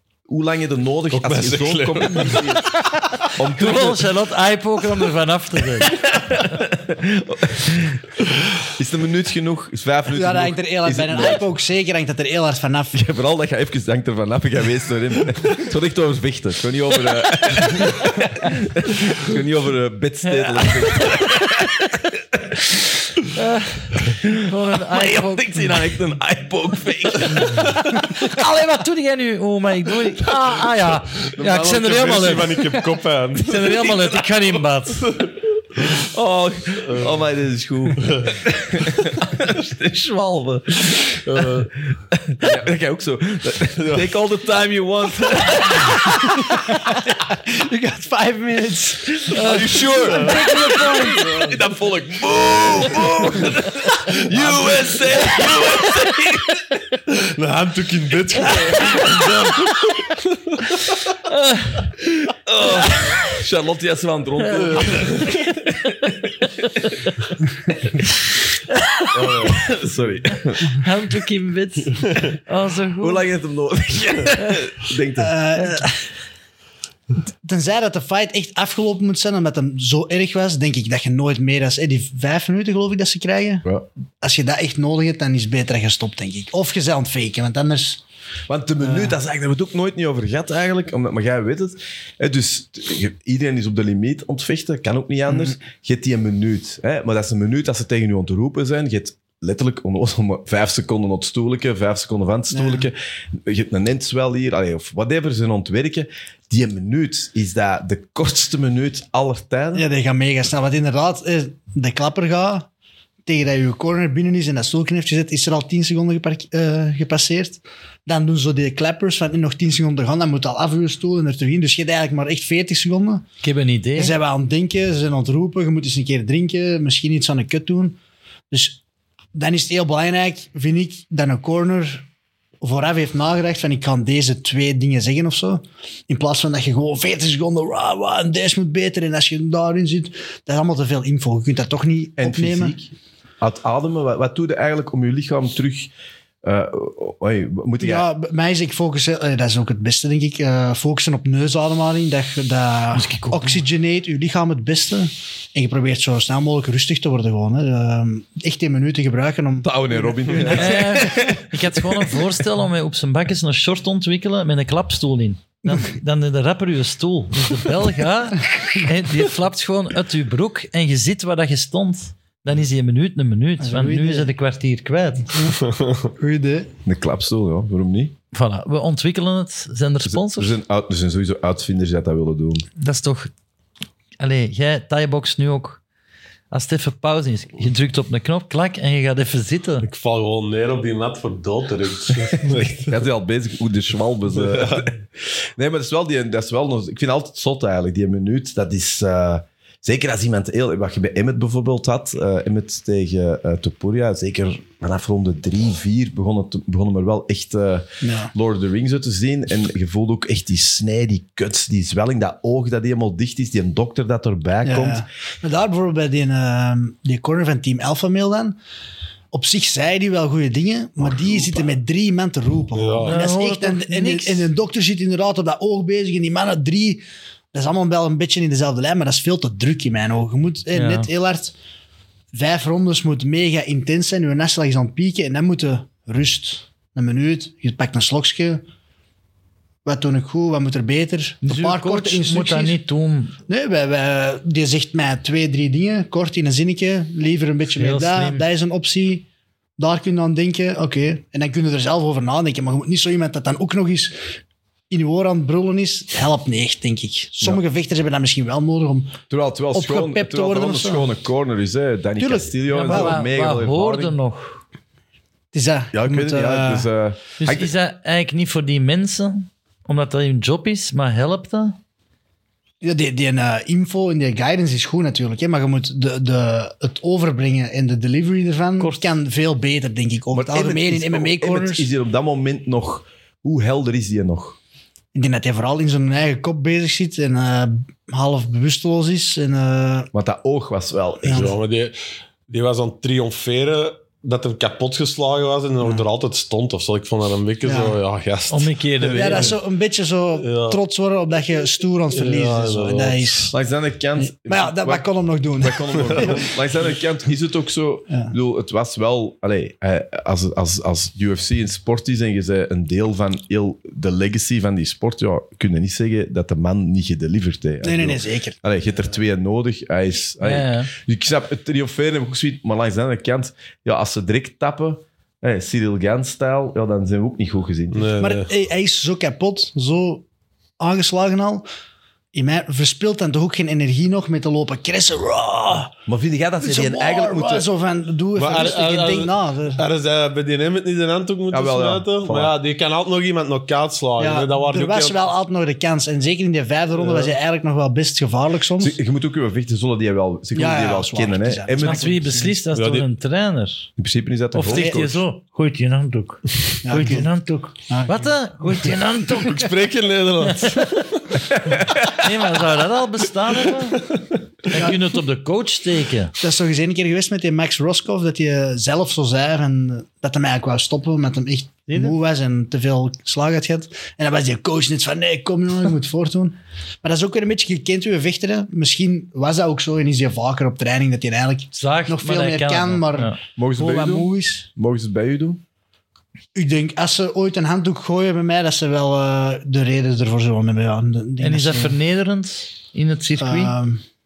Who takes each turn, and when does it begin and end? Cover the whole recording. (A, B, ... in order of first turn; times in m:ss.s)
0:00.3-0:04.1 A
0:01.1-0:02.6 B
0:03.3-0:05.9 C
0:05.8-0:11.5 A
0:10.1-0:13.0 D
0:12.9-0:22.7 A
0:23.3-0:25.8 C
0:24.2-0:27.8 A
0:27.9-0:32.7 C
0:31.3-0:34.0 B
0:33.4-0:35.1 C
0:35.8-0:46.5 A
0:36.9-0:37.2 B
0:38.0-0:38.4 B
0:41.2-0:41.7 B
0:43.8-0:44.1 B
0:46.3-0:51.5 D
0:49.3-0:56.8 A
0:49.3-0:49.7 C
0:49.9-0:50.5 B
0:50.3-0:51.2 C
0:57.1-0:59.3 B
0:58.7-0:59.4 A
1:00.2-1:00.6 B
1:01.3-1:01.8 C
1:02.3-1:06.3 A
1:04.6-1:05.3 C
1:04.7-1:05.3 B
1:08.7-1:09.1 C
1:09.1-1:09.7 B
1:09.4-1:10.8 A
1:10.8-1:13.2 C
1:13.0-1:15.3 A
1:15.2-1:16.0 D
1:17.4-1:23.6 D
1:24.2-1:28.0 D
1:28.5-1:49.8 A
1:28.8-1:29.2 D
1:35.3-1:35.6 D
1:42.5-1:42.9 D
1:49.7-1:52.7 D
1:53.2-2:03.2 D
2:03.4-2:04.2 C
2:04.0-2:08.0 D
2:08.5-2:08.8 D
2:09.3-2:12.1 D
2:12.6-2:22.8 D
2:22.2-2:25.9 A
2:26.4-2:28.1 A
2:27.8-2:41.0 D
2:32.9-2:33.6 C
2:39.6-2:41.5 A
2:40.4-2:55.3 C
2:53.6-2:54.3 D
2:55.6-2:56.0 B
2:56.2-2:56.7 D
2:56.8-2:58.1 A
2:58.3-3:00.5 C
3:00.0-3:02.6 A
3:02.8-3:03.3 C
3:04.2-3:05.8 C
3:06.5-3:09.9 C
3:09.8-3:13.0 B
3:12.5-3:15.0 A
3:14.3-3:14.9 B
3:15.6-3:35.0 A
3:28.0-3:28.3 D
3:34.6-3:38.6 D
3:39.3-3:51.5 D
3:42.7-3:43.2 B
3:43.0-3:44.5 C
3:50.7-3:51.1 C
3:52.3-3:58.6 D
3:59.8-4:02.8 D
4:01.4-4:03.3 C
4:03.5-4:09.2 D
4:07.7-4:08.4 C
4:09.8-4:14.2 D
4:14.9-4:19.2 D
4:19.3-4:24.1 A
4:19.7-4:21.1 D
4:22.2-4:23.2 D
4:22.7-4:24.6 C
4:25.5-4:26.9 D
4:25.9-4:27.7 A
4:27.4-4:31.8 C
4:32.8-4:41.9 D
4:38.8-4:39.1 C
4:40.3-4:44.6 A
4:45.1-4:50.1 D
4:50.1-4:51.5 A
4:51.2-4:51.5 D
4:51.3-4:52.0 B
4:52.5-4:59.6 B
4:57.6-4:58.0 D
4:58.5-4:59.5 C
4:59.1-5:03.6 D
5:00.4-5:00.8 B
5:02.1-5:03.4 B
5:03.5-5:05.0 A
5:04.2-5:06.5 D
5:05.6-5:28.1 A
5:17.8-5:18.6 D
5:20.4-5:20.9 C
5:27.9-5:28.5 B
5:28.2-5:30.2 D
5:30.8-5:31.6 D
5:32.3-5:35.9 D
5:36.1-5:37.7 A
5:36.6-5:39.8 D
5:38.4-5:45.2 B
5:41.5-5:42.6 A
5:44.2-5:49.0 D
5:46.9-5:47.3 B
5:48.8-5:52.4 A
5:50.5-5:52.6 D
5:51.8-5:53.9 C
5:52.7-5:53.0 B
5:54.0-5:55.2 A
5:54.5-5:59.7 C
5:54.7-5:55.0 D
5:56.8-5:57.3 D
5:57.9-5:58.3 D
5:59.4-6:01.4 B
6:00.4-6:01.0 C
6:01.6-6:02.1 A
6:02.0-6:04.1 C
6:03.7-6:04.4 B
6:04.7-6:06.3 C
6:06.4-6:24.7 D
6:11.9-6:12.2 C
6:21.8-6:23.4 C
6:23.6-6:25.6 A
6:26.5-6:32.0 D
6:31.4-6:33.7 C
6:33.4-6:34.0 D